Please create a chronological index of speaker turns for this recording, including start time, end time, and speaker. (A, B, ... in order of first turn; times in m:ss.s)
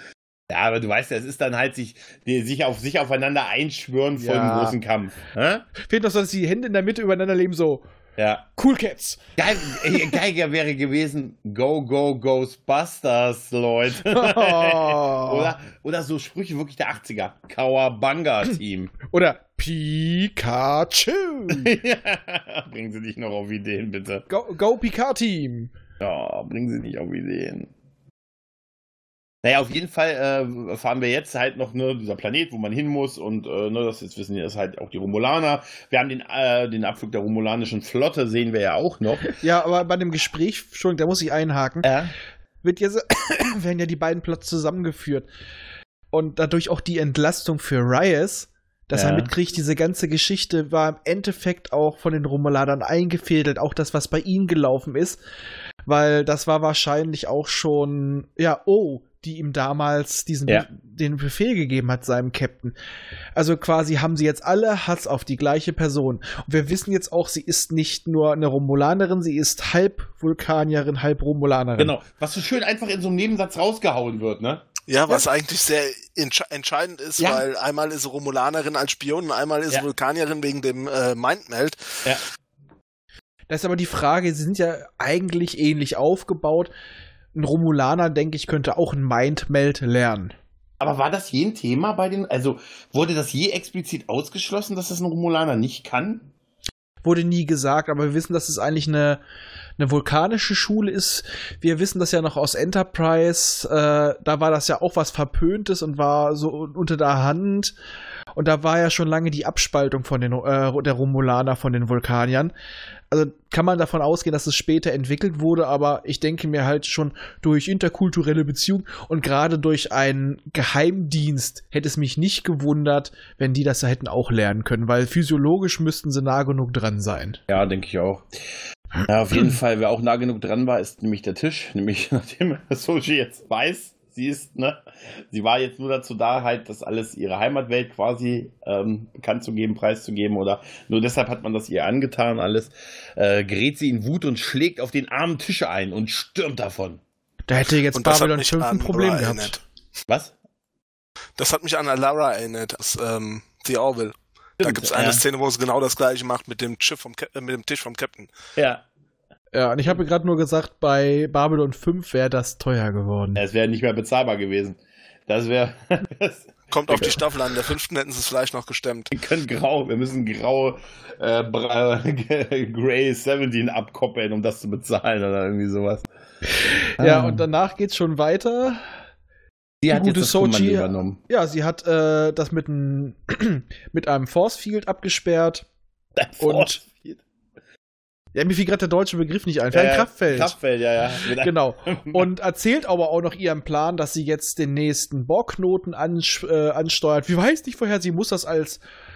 0:00.5-0:05.7 A
0:04.2-0:04.8 B
0:05.8-0:07.8 B
0:08.2-0:08.4 A
0:08.6-0:10.2 B
0:09.4-0:18.9 A
0:14.0-0:15.5 B
0:19.1-0:21.7 B
0:21.5-0:24.2 A
0:24.3-0:25.7 B
0:26.0-0:27.7 A
0:29.4-0:39.3 A
0:39.4-0:41.9 B
0:41.8-0:42.1 A
0:42.6-0:45.3 B
0:46.1-0:55.2 B
0:48.9-0:49.3 A
0:55.8-1:02.8 B
1:03.3-1:11.9 B
1:11.8-1:14.6 A
1:14.9-1:22.0 C
1:23.5-1:26.7 B
1:27.3-1:30.3 B
1:30.8-1:36.3 A
1:37.0-1:39.2 B
1:39.8-1:47.7 B
1:48.3-1:52.5 B
1:53.1-2:07.4 B
2:07.5-2:08.2 A
2:09.0-2:27.0 A
2:27.5-2:29.6 B
2:27.9-2:29.6 C
2:30.1-2:30.3 A
2:31.4-2:38.3 C
2:34.6-2:35.2 A
2:38.6-2:38.8 A
2:39.5-2:43.4 B
2:43.4-2:47.2 A
2:46.7-2:49.1 C
2:49.1-2:56.0 A
2:56.6-2:58.8 B
2:57.0-2:57.4 A
2:59.8-3:01.2 A
2:59.9-3:05.7 B
3:06.2-3:07.2 A
3:06.4-3:06.8 B
3:08.3-3:10.6 B
3:09.7-3:12.3 A
3:11.3-3:18.8 B